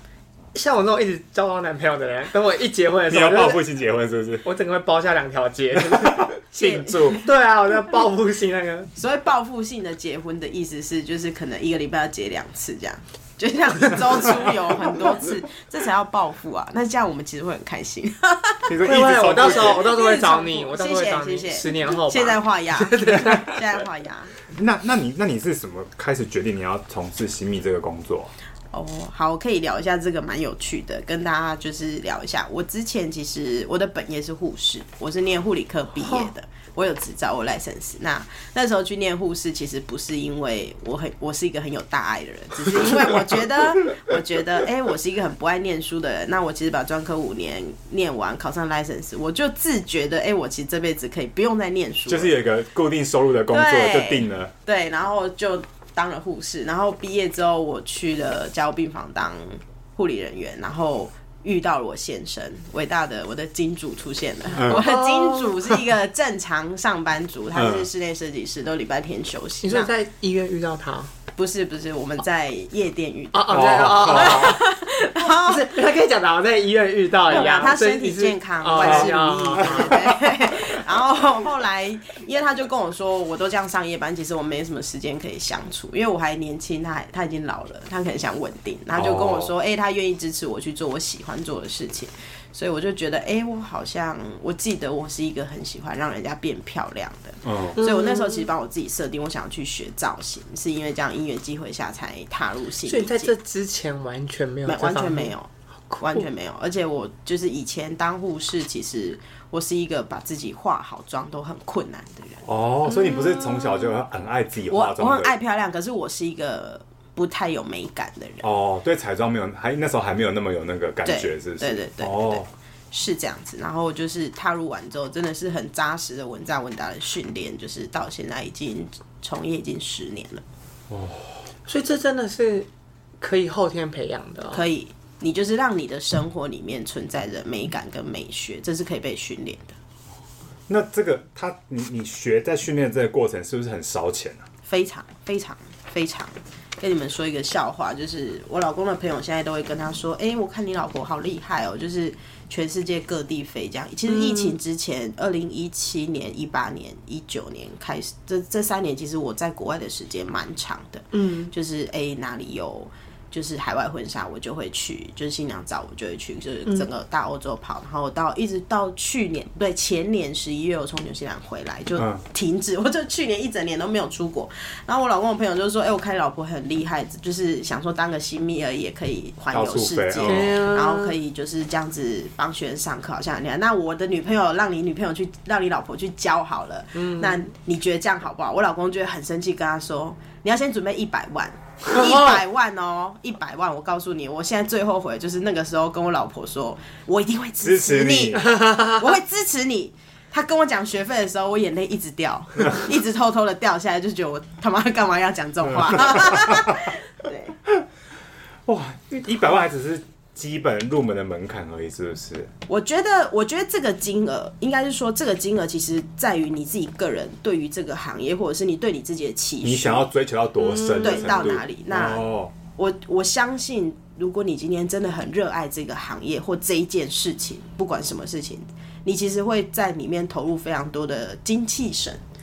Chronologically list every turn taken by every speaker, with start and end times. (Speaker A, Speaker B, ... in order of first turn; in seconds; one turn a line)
Speaker A: 0.5-3.6
Speaker B: 3.1-4.5
Speaker A: 4.5-8.9
Speaker B: 5.8-7.2
Speaker C: 6.6-7.2
Speaker C: 9.0-18.7
Speaker B: 18.7-19.9
Speaker A: 18.8-23.9
Speaker C: 19.4-24.3
Speaker B: 24.5-28.3
Speaker C: 28.7-52.4
Speaker A: 36.0-36.3
Speaker B: 52.1-54.5
Speaker C: 53.5-69.9
Speaker B: 64.5-64.8
Speaker A: 64.7-65.8
Speaker B: 67.5-67.9
Speaker A: 69.6-71.1
Speaker C: 71.3-75.8
Speaker A: 73.3-74.7
Speaker B: 73.5-74.6
Speaker A: 75.3-80.1
Speaker C: 77.3-103.3
Speaker B: 78.8-79.9
Speaker B: 88.9-89.5
Speaker B: 97.5-97.8
Speaker A: 97.8-98.5
Speaker A: 102.9-105.3
Speaker C: 104.7-112.5
Speaker A: 105.9-106.3
Speaker B: 112.5-115.3
Speaker A: 112.9-113.9
Speaker C: 114.7-118.5
Speaker B: 118.4-122.5
Speaker C: 121.0-130.4
Speaker B: 130.9-131.5
Speaker A: 131.7-132.7
Speaker A: 133.2-134.7
Speaker C: 134.5-139.8
Speaker B: 140.7-144.5
Speaker C: 144.7-207.6
Speaker A: 154.1-154.6
Speaker A: 161.1-161.5
Speaker B: 172.0-172.2
Speaker B: 179.5-180.6
Speaker A: 180.2-181.2
Speaker A: 186.9-187.4
Speaker A: 191.9-192.4
Speaker B: 197.6-198.5
Speaker A: 198.4-199.1
Speaker B: 205.7-206.9
Speaker B: 208.7-212.5
Speaker C: 212.7-220.1
Speaker B: 219.6-222.5
Speaker A: 220.6-221.5
Speaker C: 221.0-232.2